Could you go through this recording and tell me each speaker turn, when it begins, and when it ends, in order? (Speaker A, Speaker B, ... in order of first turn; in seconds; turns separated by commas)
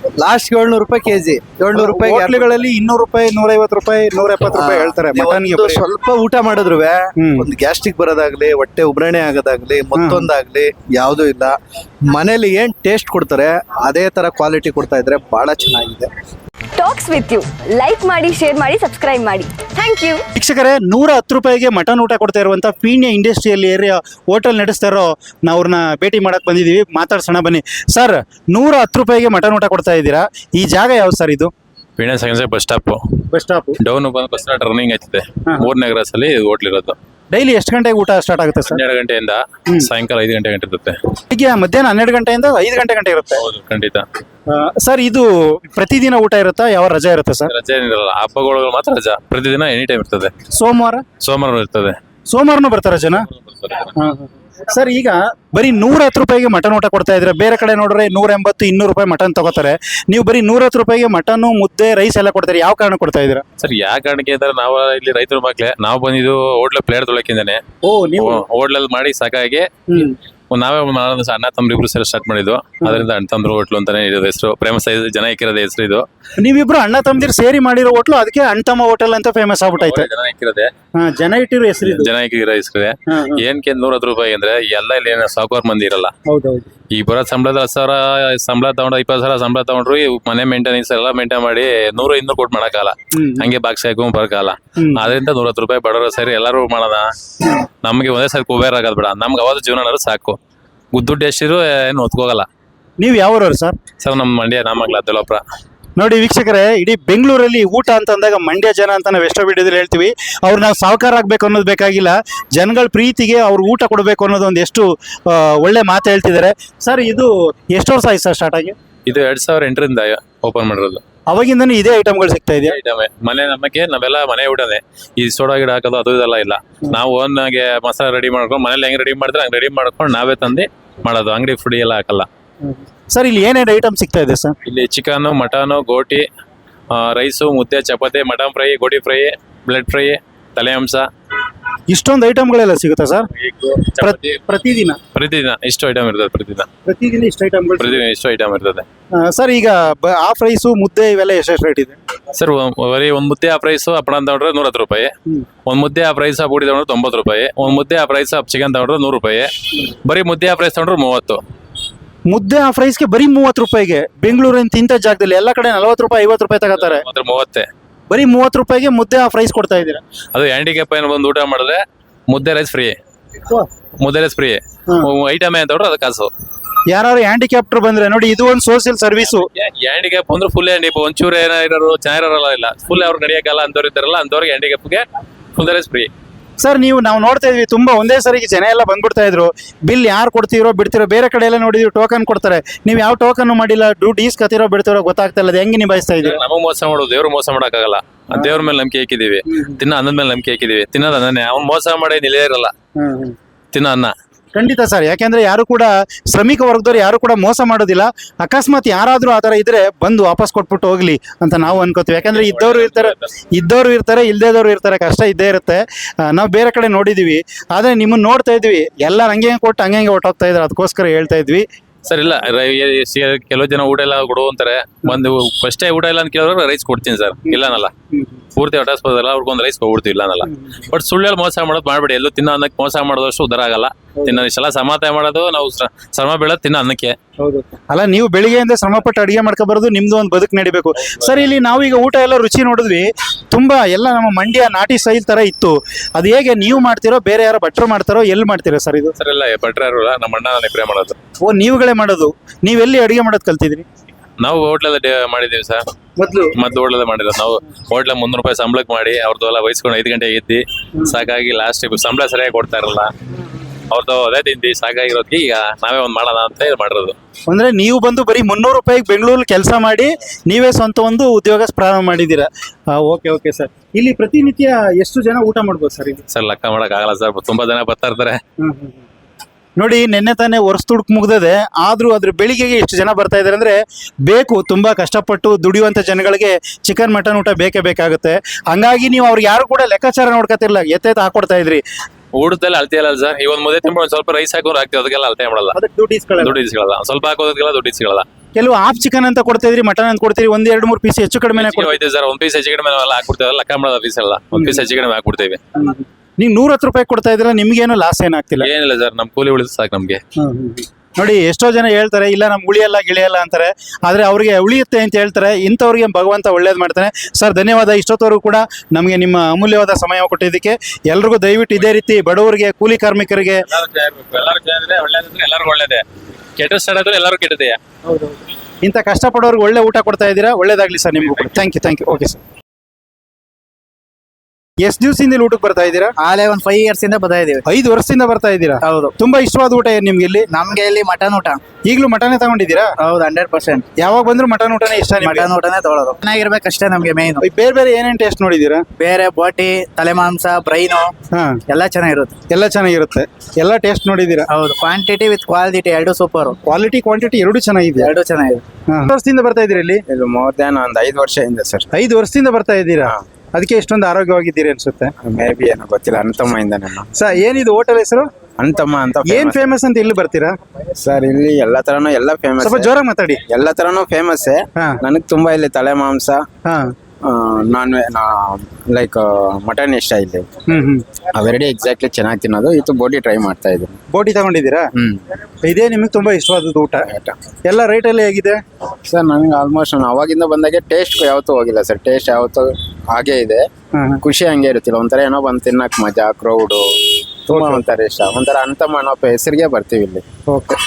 Speaker A: 0.2-2.5, Speaker B: 1.7-5.9, Speaker A: 4.4-11.6, Speaker B: 7.2-7.5, Speaker B: 10.0-10.3, Speaker A: 12.1-16.1, Speaker C: 16.8-20.2, Speaker B: 20.4-31.5, Speaker D: 32.0-33.0, Speaker B: 33.3-33.8, Speaker D: 33.8-37.0, Speaker B: 37.3-38.8, Speaker D: 38.7-41.0, Speaker B: 41.3-43.4, Speaker D: 43.4-44.0, Speaker B: 44.5-47.5, Speaker D: 47.5-50.3, Speaker B: 50.5-51.0, Speaker D: 51.2-52.0, Speaker B: 52.3-53.3, Speaker D: 53.4-53.9, Speaker B: 54.0-63.4, Speaker D: 63.6-67.6, Speaker B: 67.8-68.4, Speaker D: 68.2-70.0, Speaker B: 69.9-70.2, Speaker D: 70.5-76.0, Speaker B: 72.8-73.1, Speaker B: 76.4-80.1, Speaker D: 79.8-80.7, Speaker B: 81.0-82.1, Speaker D: 81.8-86.1, Speaker B: 83.1-83.4, Speaker B: 86.3-86.7, Speaker D: 87.0-97.1, Speaker B: 93.1-93.5, Speaker B: 94.8-95.1, Speaker D: 97.8-100.4, Speaker D: 100.9-102.5, Speaker B: 103.0-103.8, Speaker D: 104.0-105.4, Speaker B: 106.0-118.8, Speaker D: 119.1-121.0, Speaker B: 121.3-122.8, Speaker D: 122.7-132.3, Speaker B: 132.6-134.6, Speaker D: 134.7-136.3, Speaker D: 136.9-141.1, Speaker B: 141.9-143.3, Speaker D: 143.4-144.4, Speaker B: 143.9-145.0, Speaker D: 145.2-146.7, Speaker B: 146.8-148.0, Speaker D: 147.8-148.8, Speaker B: 149.2-152.0, Speaker D: 152.3-155.1, Speaker D: 155.7-161.4, Speaker B: 162.3-167.1, Speaker D: 166.8-167.7, Speaker B: 168.1-170.0, Speaker D: 170.3-172.9, Speaker D: 174.0-176.3, Speaker B: 176.9-179.5, Speaker D: 179.2-185.0, Speaker D: 185.6-186.1, Speaker B: 186.6-196.4, Speaker D: 196.2-202.7, Speaker B: 198.3-198.6, Speaker B: 199.5-199.8, Speaker B: 203.0-203.4, Speaker D: 203.7-204.1, Speaker B: 204.6-221.7, Speaker D: 212.3-213.3, Speaker D: 222.1-227.9, Speaker B: 227.5-228.4, Speaker D: 228.6-237.1, Speaker B: 230.4-230.8, Speaker B: 234.2-234.5, Speaker B: 237.4-249.1, Speaker D: 241.2-241.4, Speaker D: 249.2-251.2, Speaker B: 251.4-253.8, Speaker D: 254.4-255.8, Speaker B: 256.2-256.5, Speaker D: 256.6-263.1, Speaker B: 261.0-261.2, Speaker D: 263.9-267.2, Speaker B: 267.5-276.2, Speaker D: 276.3-278.4, Speaker B: 278.6-279.0, Speaker B: 279.8-291.8, Speaker D: 292.4-295.8, Speaker B: 295.7-296.6, Speaker D: 296.4-298.3, Speaker B: 298.6-302.0, Speaker D: 301.6-305.6, Speaker B: 304.5-304.9, Speaker B: 305.8-308.7, Speaker D: 308.6-310.2, Speaker B: 310.4-323.7, Speaker D: 323.6-326.0, Speaker D: 326.6-327.8, Speaker B: 328.8-332.4, Speaker B: 334.8-336.1, Speaker E: 336.2-337.6, Speaker B: 337.7-340.5, Speaker E: 340.6-341.6, Speaker B: 341.9-342.9, Speaker E: 343.1-343.8, Speaker B: 344.0-345.5, Speaker E: 345.3-347.4, Speaker B: 347.4-348.9, Speaker E: 349.0-351.1, Speaker B: 351.3-351.6, Speaker E: 351.7-352.3, Speaker B: 352.5-354.5, Speaker E: 354.6-356.5, Speaker B: 356.6-358.1, Speaker E: 358.1-358.6, Speaker B: 358.9-360.0, Speaker F: 360.1-361.9, Speaker B: 361.9-365.1, Speaker F: 365.2-367.1, Speaker B: 367.1-368.3, Speaker F: 368.6-369.7, Speaker B: 369.2-370.5, Speaker F: 371.0-372.9, Speaker B: 372.6-373.4, Speaker F: 373.5-376.4, Speaker F: 377.3-380.5, Speaker B: 380.7-381.1, Speaker F: 381.3-384.0, Speaker B: 384.1-384.9, Speaker F: 385.0-385.2, Speaker B: 385.6-387.1, Speaker F: 387.1-387.4, Speaker B: 387.6-388.6, Speaker F: 389.0-393.6, Speaker B: 394.0-394.2, Speaker F: 394.2-396.8, Speaker F: 397.5-400.3, Speaker B: 397.5-397.8, Speaker B: 400.5-400.8